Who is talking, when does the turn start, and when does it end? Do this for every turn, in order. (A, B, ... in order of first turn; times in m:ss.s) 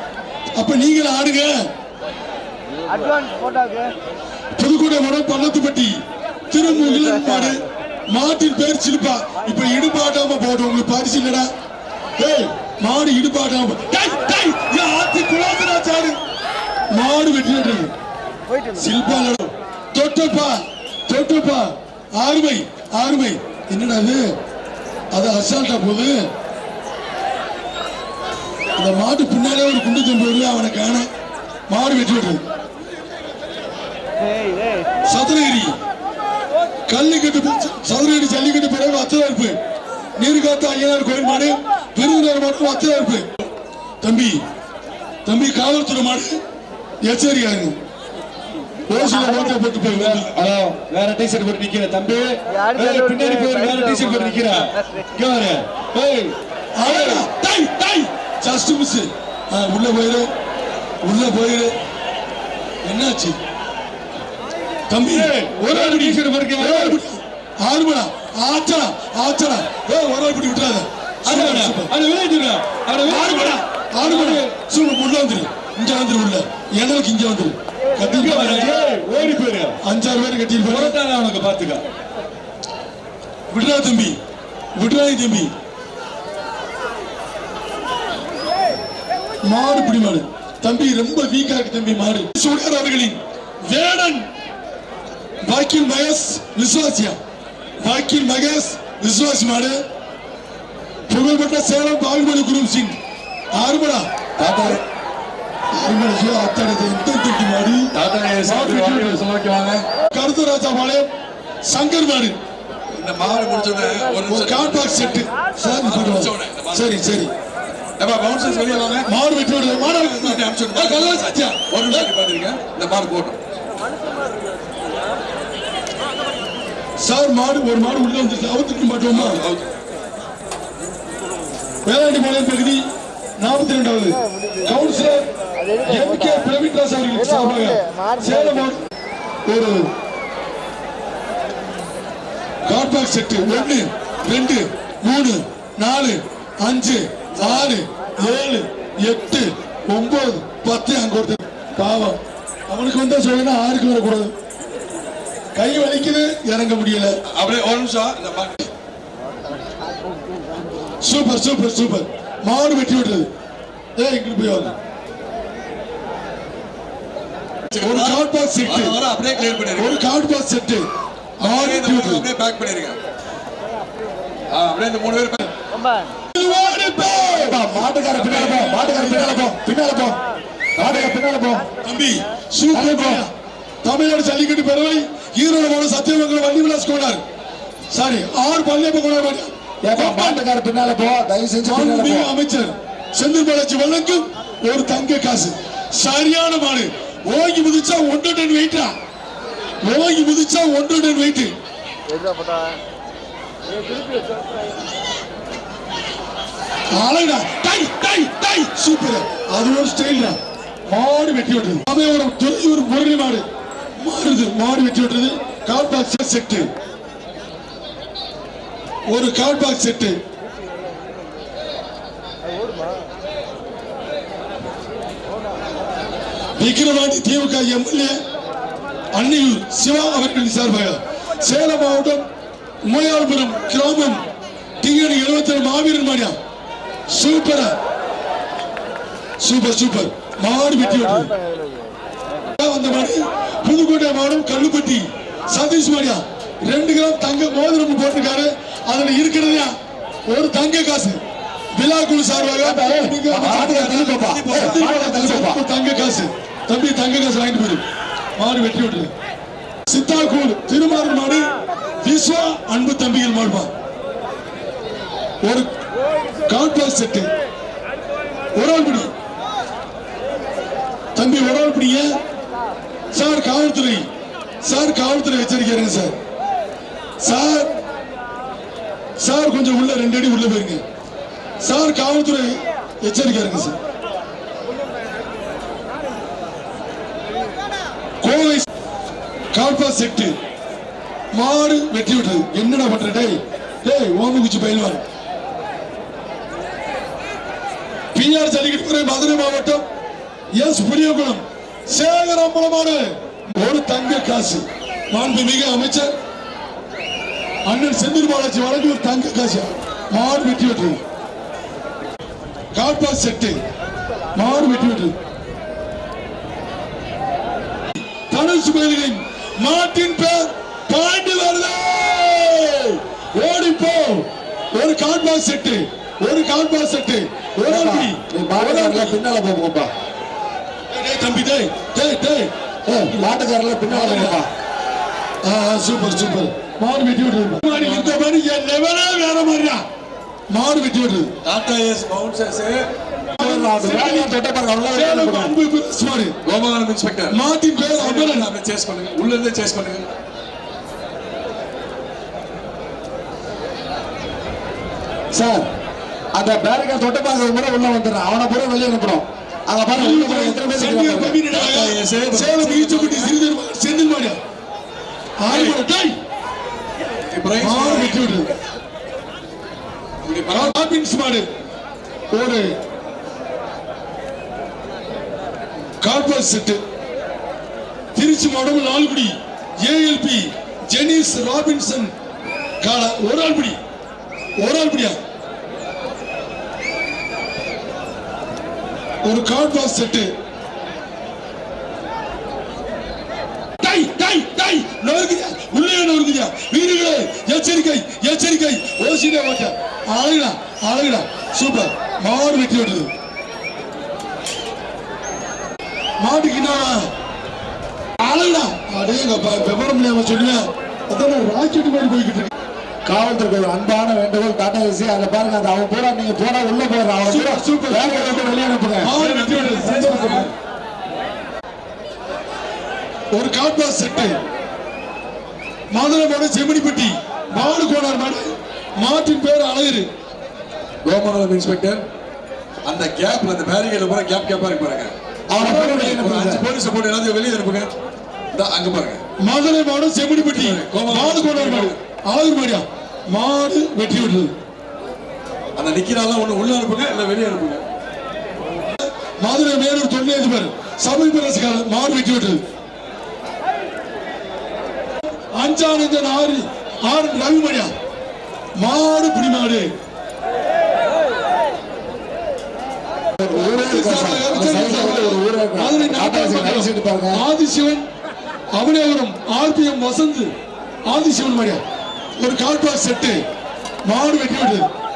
0:00.6-0:01.7 A
0:04.6-0:11.5 A
0:12.2-0:16.2 A
0:16.9-0:17.9 A
0:18.8-0:24.3 A
0:25.1-0:26.3 A
0:28.8-0:31.1 A
0:31.7-0:32.4 A
0:35.1-0:35.8 A
0:36.9-0:39.6 A
0:40.2-0:43.4 A
0:44.0-0:44.4 A
0:45.2-0:46.4 A
0:47.0-0:47.8 A
0:48.9-0:50.3 A
0:49.4-0:57.2 B
0:56.8-1:00.3 A
1:01.0-1:01.7 A
1:02.8-1:03.4 A
1:04.9-1:11.9 A
1:05.1-1:07.0 B
1:11.3-1:14.5 B
1:13.0-1:18.8 A
1:18.0-1:19.8 B
1:19.8-1:21.0 A
1:20.7-1:21.8 B
1:23.5-1:24.2 A
1:24.8-1:25.5 A
1:29.4-1:34.3 A
1:35.4-1:37.2 A
1:37.8-1:39.8 A
1:41.1-1:43.0 A
1:43.5-1:44.1 A
1:44.4-1:44.8 C
1:45.7-1:47.9 A
1:47.9-1:49.9 C
1:48.4-1:49.2 A
1:50.1-1:51.1 A
1:51.6-1:52.4 A
1:52.9-1:57.1 C
1:54.3-1:57.3 A
1:58.0-1:59.1 C
1:59.1-2:02.1 A
1:59.7-2:03.4 C
2:07.0-2:09.4 A
2:09.1-2:09.7 C
2:11.8-2:12.8 A
2:13.4-2:15.3 A
2:15.8-2:18.8 A
2:19.5-2:19.8 A
2:22.7-2:32.2 A
2:27.4-2:27.7 C
2:32.7-2:34.3 A
2:35.6-2:37.1 A
2:37.3-2:38.7 C
2:41.0-2:43.3 A
2:44.0-2:44.8 A
2:47.7-2:50.1 C
2:47.8-2:49.0 A
2:49.8-2:50.9 A
2:51.4-2:53.0 C
2:51.4-2:52.3 A
2:54.5-2:55.5 C
2:56.4-2:59.6 A
2:57.3-3:00.2 D
2:58.1-2:58.7 C
3:00.8-3:01.2 A
3:00.8-3:01.7 D
3:01.8-3:03.3 A
3:02.7-3:03.2 D
3:03.8-3:07.2 A
3:07.9-3:10.4 A
3:09.8-3:12.3 D
3:11.6-3:18.9 A
3:19.8-3:21.5 A
3:26.9-3:33.5 A
3:34.0-3:36.7 A
3:39.1-3:40.2 A
3:46.6-3:48.2 A
3:49.1-3:52.3 A
3:52.8-3:54.2 A
3:54.8-3:56.4 A
3:57.1-3:57.8 A
3:59.4-4:01.3 A
4:02.6-4:09.8 A
4:10.3-4:11.2 A
4:11.8-4:17.8 A
4:12.6-4:15.6 D
4:13.7-4:15.0 C
4:18.4-4:19.1 A
4:19.9-4:21.5 A
4:22.0-4:23.7 A
4:25.4-4:25.7 A
4:26.5-4:27.3 A
4:28.5-4:29.1 A
4:31.2-4:32.2 A
4:33.1-4:34.1 A
4:34.6-4:36.2 A
4:37.2-4:37.7 A
4:39.2-4:40.8 A
4:41.6-4:43.8 A
4:48.2-4:48.7 A
4:49.5-4:50.3 A
4:51.3-4:55.0 A
4:58.1-4:59.8 A
5:00.6-5:06.1 A
5:07.7-5:11.0 A
5:12.7-5:13.6 A
5:14.4-5:15.1 A
5:18.3-5:29.2 A
5:27.6-5:29.9 D
5:30.9-5:32.5 A
5:32.9-5:34.5 D
5:33.9-5:34.4 A
5:35.4-5:39.8 A
5:37.7-5:38.2 C
5:40.5-5:41.3 A
5:41.4-5:42.9 C
5:43.4-5:44.4 A
5:43.4-5:45.6 D
5:44.9-5:46.4 A
5:46.5-5:50.1 C
5:47.3-5:48.5 A
5:55.3-5:55.7 D
5:56.3-6:01.4 D
6:00.0-6:04.4 A
6:01.5-6:03.4 C
6:05.4-6:06.2 A
6:05.5-6:05.8 C
6:07.3-6:08.3 C
6:07.6-6:08.5 A
6:10.2-6:10.8 C
6:10.5-6:11.5 A
6:12.3-6:12.8 A
6:16.0-6:16.8 A
6:18.2-6:22.1 A
6:22.8-6:23.8 A
6:24.6-6:25.2 A
6:29.2-6:30.3 A
6:33.8-6:43.1 A
6:46.2-6:47.1 A
6:48.2-6:52.5 A
6:53.1-6:59.2 D
6:57.2-7:00.5 A
6:59.1-7:00.5 C
7:03.3-7:04.4 A
7:05.9-7:10.1 A
7:11.0-7:12.1 C
7:12.8-7:15.1 C
7:15.5-7:16.7 D
7:15.6-7:16.1 A
7:15.7-7:17.9 C
7:18.5-7:19.2 C
7:19.4-7:24.5 A
7:20.4-7:22.0 C
7:25.8-7:27.8 C
7:29.0-7:32.6 A
7:35.5-7:37.9 A
7:38.8-7:39.9 A
7:43.4-7:47.4 D
7:43.5-7:48.1 A
7:48.7-7:50.5 A
7:51.1-7:51.8 A
7:52.4-7:53.4 A
7:54.0-7:54.9 A